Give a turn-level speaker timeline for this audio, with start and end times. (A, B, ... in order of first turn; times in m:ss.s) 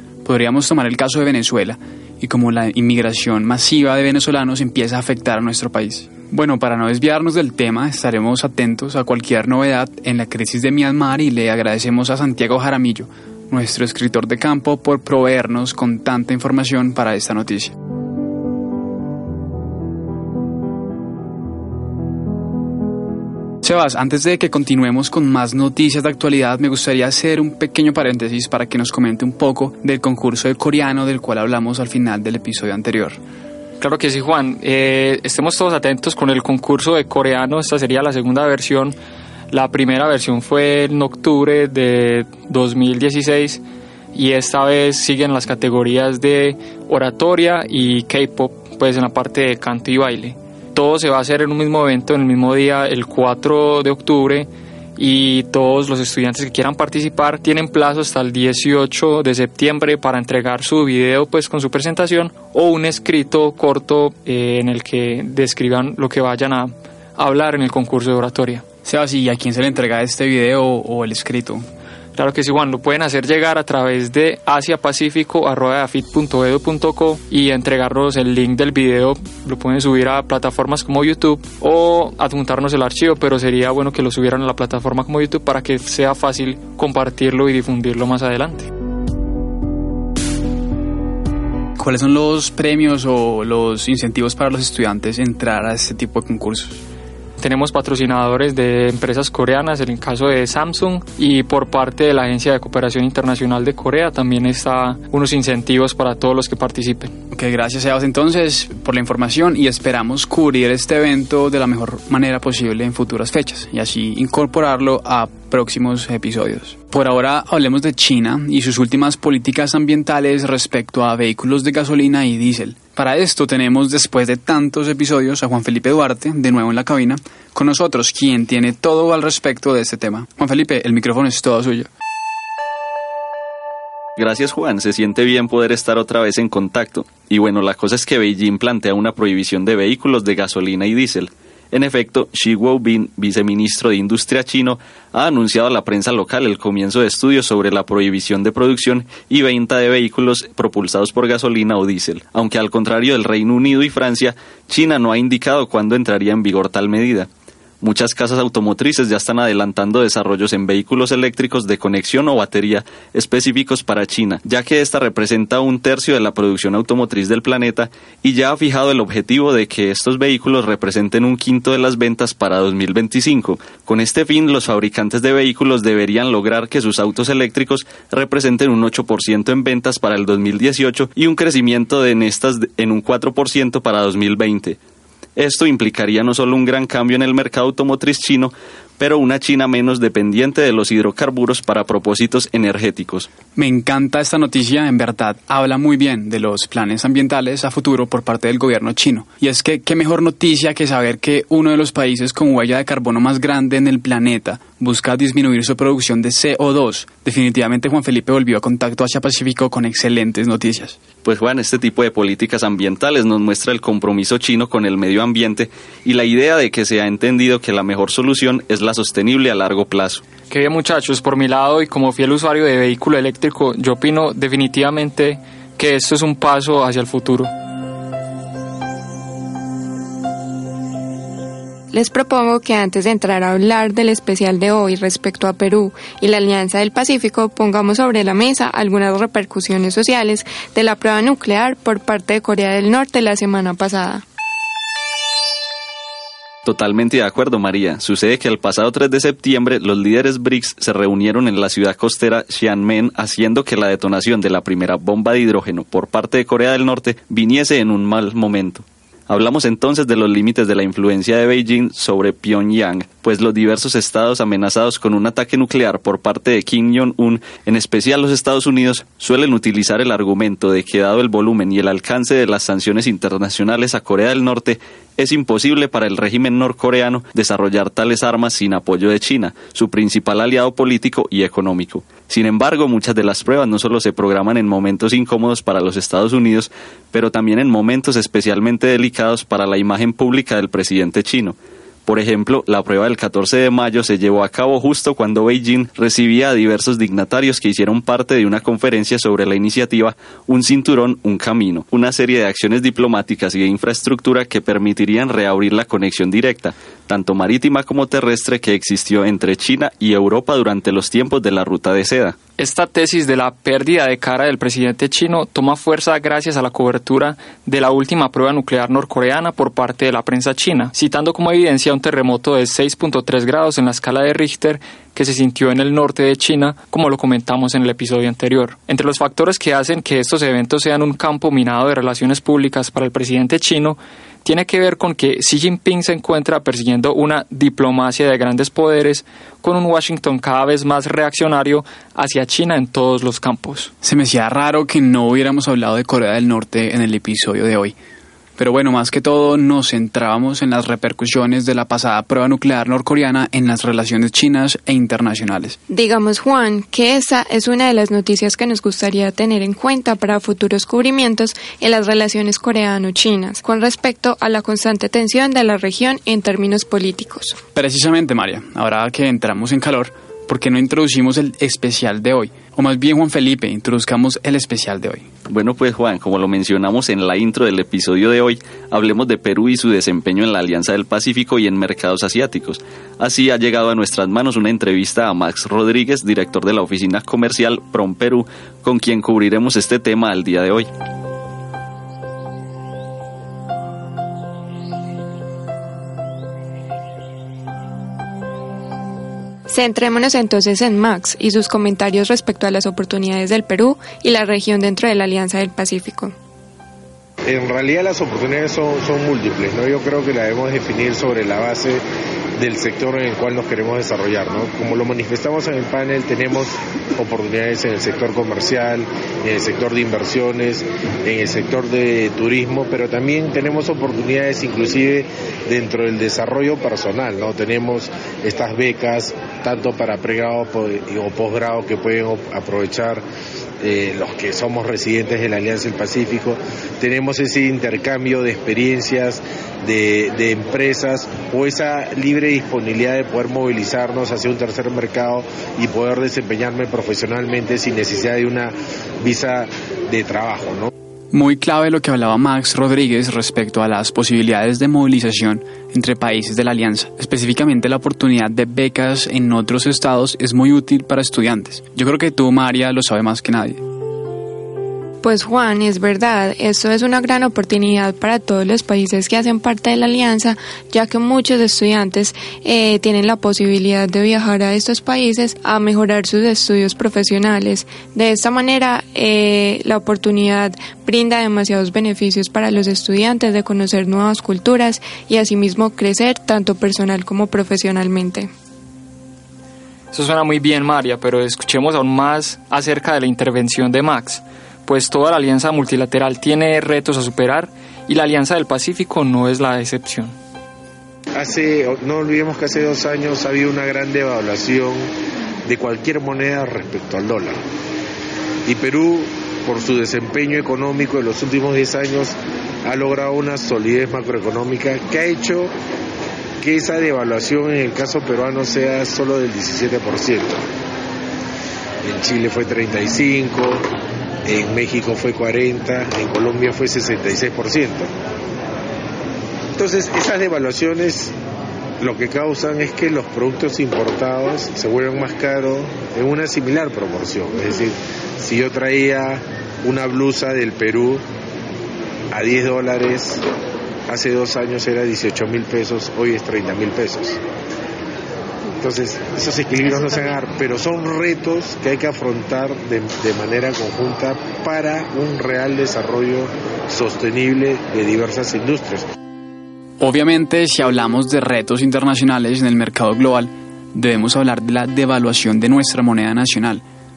0:00.2-0:17.7 A
0:23.6-0:33.2 A
0:33.8-0:39.0 B
0:39.5-0:43.6 B
0:44.1-1:08.6 B
1:08.8-1:11.7 A
1:12.2-1:28.7 B
1:31.8-1:36.8 A
1:37.4-1:47.1 B
1:47.3-2:11.9 A
2:14.2-2:37.3 C
2:37.8-3:04.8 C
3:05.4-3:13.3 C
3:13.6-3:31.0 A
3:31.2-3:40.2 C
3:40.5-3:47.5 B
3:51.9-4:04.2 D
4:06.6-5:12.4 C
5:12.6-5:43.9 B
5:44.0-5:48.0 A
5:48.6-5:55.8 A
5:55.9-6:07.6 D
6:07.7-6:15.3 A
6:15.5-6:30.9 C
6:39.7-6:46.3 D
6:47.5-6:52.0 E
6:52.6-7:13.2 E
7:13.8-7:30.9 E
7:31.3-7:43.8 A
7:45.2-8:08.5 D
8:10.1-8:20.4 B
8:21.4-8:25.1 E
8:25.7-8:27.6 E
8:28.7-8:35.7 E
8:36.6-8:40.6 E
8:42.0-8:43.9 E
8:44.5-8:48.1 E
8:49.8-8:51.3 E
8:52.0-9:01.2 E
9:02.3-9:03.5 E
9:04.1-9:07.4 E
9:08.8-9:19.0 E
9:20.0-9:26.8 A